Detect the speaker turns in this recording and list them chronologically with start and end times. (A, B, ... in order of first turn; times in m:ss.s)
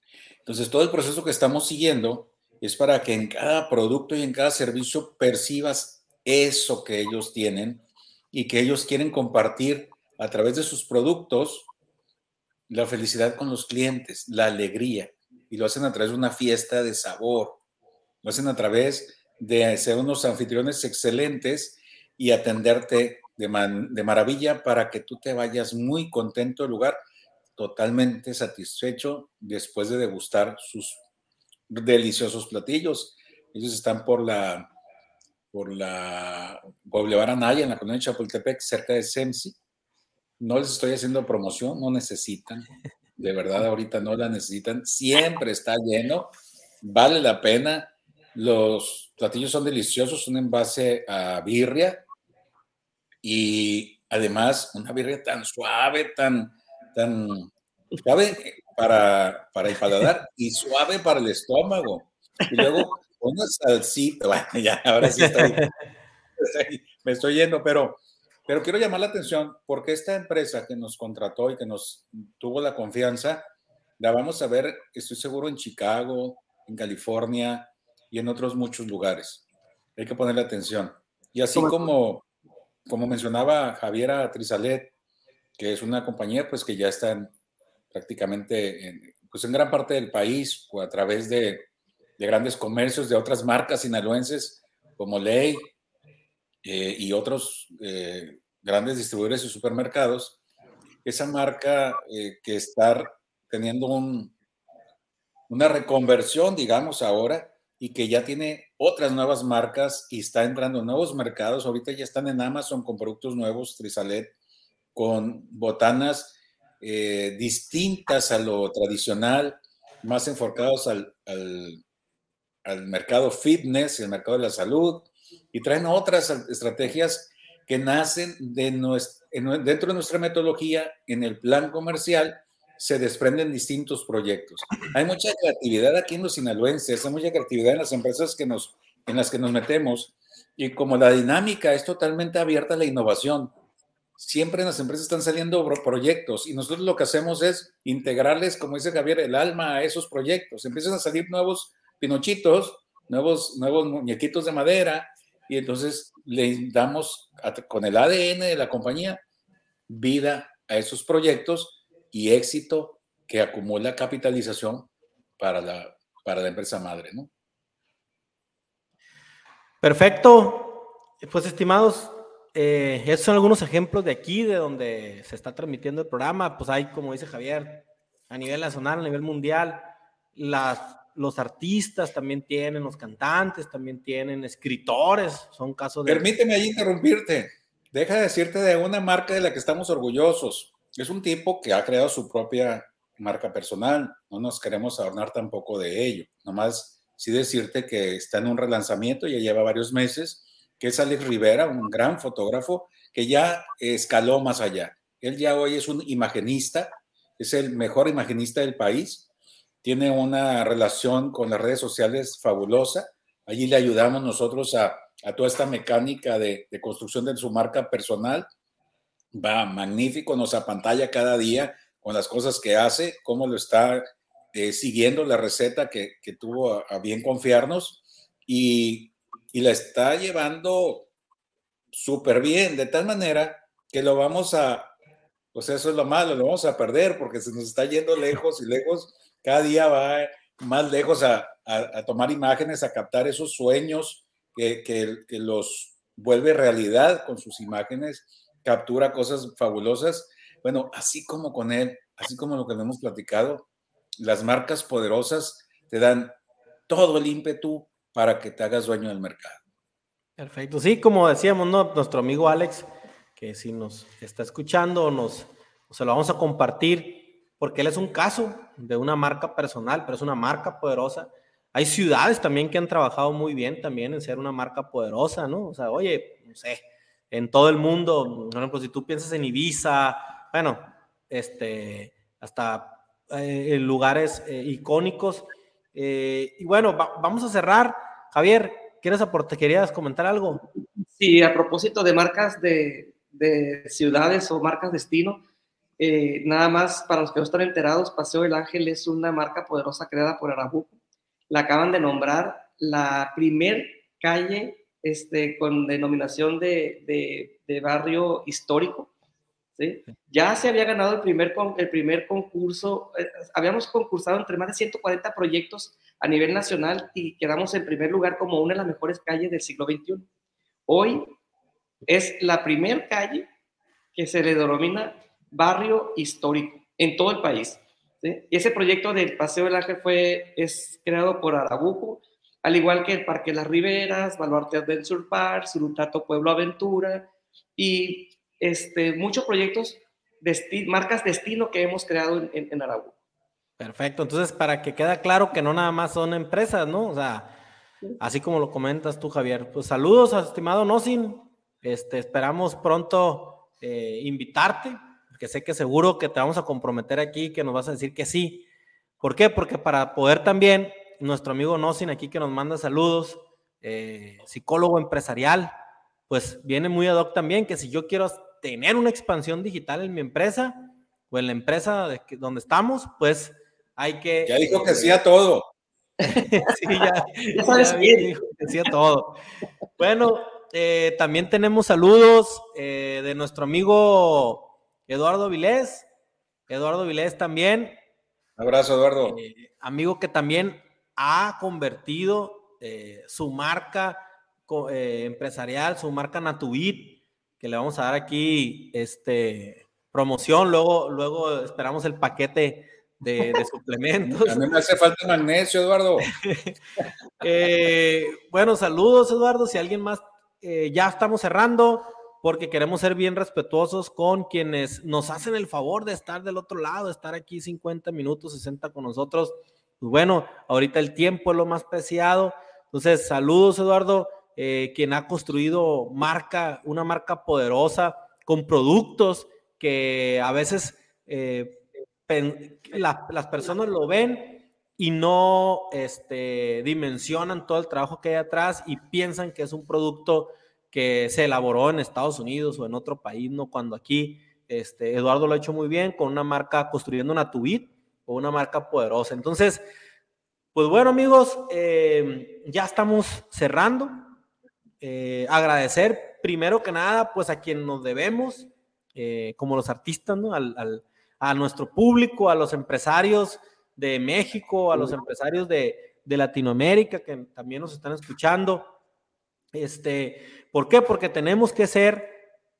0:00.4-0:11.7 A
0:12.7-0:17.6 A
0:18.2-0:27.0 A
0:27.6-0:31.0 A
0:31.7-0:34.7 A
0:35.5-0:39.6 A
0:40.4-0:42.7 A
0:43.2-0:46.3 A
0:46.8-0:52.0 A
0:53.2-0:57.5 A
0:58.0-1:05.6 A
1:02.5-1:02.8 B
1:05.2-1:05.7 C
1:06.4-1:19.4 A
1:20.0-1:22.2 A
1:21.5-1:21.9 B
1:22.8-1:24.9 A
1:25.6-1:27.3 A
1:27.9-1:31.7 A
1:32.2-1:35.7 A
1:36.6-1:40.4 A
1:41.0-1:44.3 A
1:45.5-1:54.3 A
1:54.9-2:01.8 A
2:02.6-2:23.5 A
2:24.2-2:39.2 A
2:39.9-2:47.3 A
2:49.8-3:06.2 C
3:06.1-3:29.3 A
3:29.8-3:38.5 A
3:39.3-3:51.1 A
3:51.9-3:54.9 A
3:55.5-4:13.7 A
4:14.2-4:16.4 A
4:16.9-4:19.6 A
4:20.4-4:50.6 C
4:51.1-4:55.4 B
4:56.0-5:01.0 B
5:01.5-5:09.1 B
5:09.8-5:20.3 B
5:20.9-5:21.3 B
5:22.1-5:23.4 B
5:24.1-5:43.1 B
5:43.8-5:47.5 C
5:48.2-5:58.6 C
5:59.2-6:05.7 C
6:06.3-6:15.2 C
6:14.4-6:15.7 A
6:16.2-6:19.4 C
6:16.2-6:18.3 B
6:20.0-6:26.1 C
6:26.7-6:28.0 C
6:28.6-6:29.4 A
6:29.2-6:44.6 C
6:44.3-6:46.4 A
6:46.4-6:46.8 C
6:47.4-7:29.8 C
7:30.7-7:34.3 C
7:35.0-7:48.9 C
7:49.7-7:52.4 C